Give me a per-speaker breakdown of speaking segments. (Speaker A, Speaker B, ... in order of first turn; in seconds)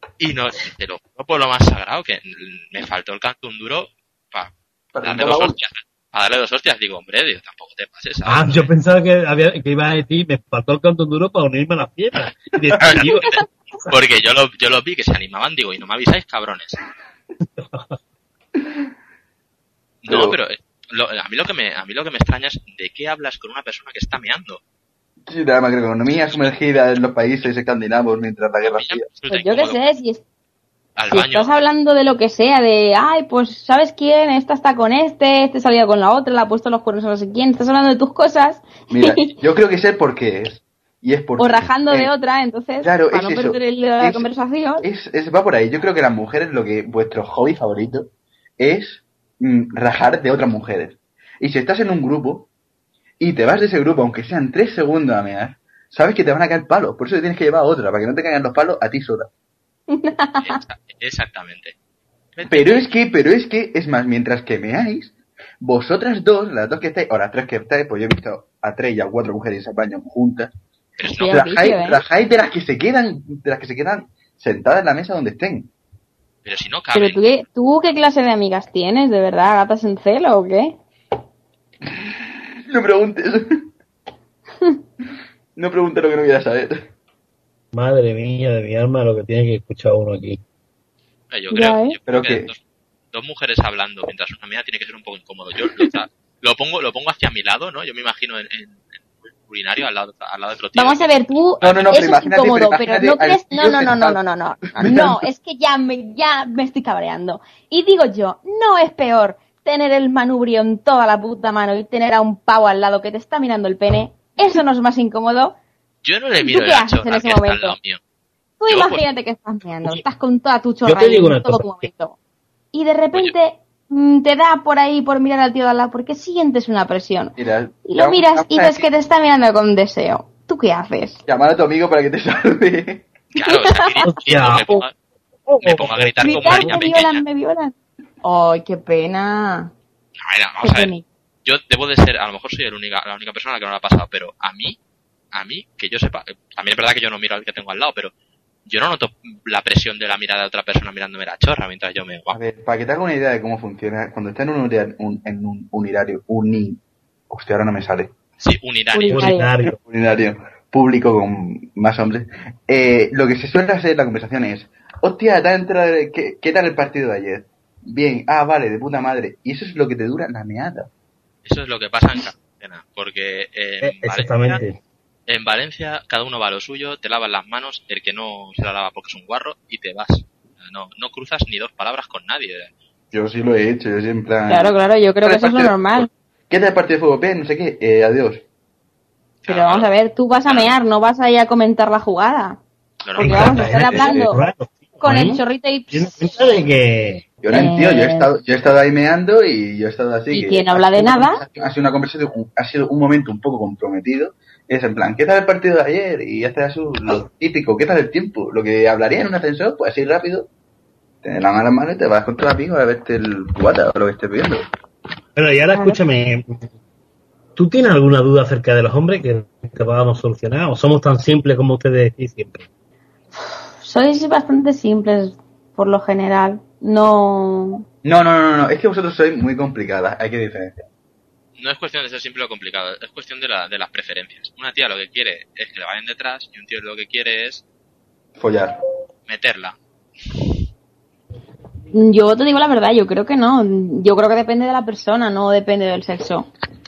Speaker A: 0.2-8.7, 12.8-16.8, 20.0-24.6, 26.2-26.5, 28.7-29.8, 31.0-31.5, 60.4-61.8, 62.4-62.9, 71.0-71.5, 76.5-77.2, 91.3-92.6, 93.1-101.9, 116.0-118.0, 118.7-119.0, 133.3-134.9, 135.6-137.2, 140.2-140.9, 141.4-144.8, 145.3-148.1, 148.7-152.4, 158.4-159.4, 171.4-174.6, 175.3-182.7, 189.4-189.9, 190.5-190.8, 193.0-193.9, 231.6-237.6, 239.3-239.8
Speaker B: 4.9-5.6, 20.1-20.4, 25.3-29.1, 38.9-42.1, 42.8-44.3, 44.8-52.5, 53.2-59.3, 62.5-70.5, 71.3-75.7, 81.9-82.1, 82.7-83.7, 85.6-86.9, 92.1-92.5, 101.6-104.2, 104.8-105.3, 127.4-128.9, 131.3-133.1, 152.3-158.1, 159.7-170.9, 183.1-188.4, 193.9-194.3, 197.4-210.5, 211.2-214.7, 228.0-230.8, 238.4-238.8
Speaker C: 8.2-13.9, 17.6-18.0, 87.7-90.4, 120.8-121.9, 134.0-134.8, 135.5-136.8, 159.1-159.8, 173.8-174.8, 193.2-197.2, 215.4-216.6, 217.6-222.7
Speaker D: 29.3-30.2, 31.1-39.3, 41.4-44.9, 59.9-60.6, 71.0-72.0, 76.9-80.8, 91.5-92.0, 100.8-115.6, 116.4-117.8, 118.6-122.2, 122.7-131.2, 133.4-134.1, 136.2-139.7, 140.6-141.1, 158.9-159.5, 184.5-186.1, 189.5-192.6, 193.2-194.4, 195.0-196.5, 197.5-198.3, 200.3-201.4, 215.7-216.0, 223.5-227.9, 241.9-246.5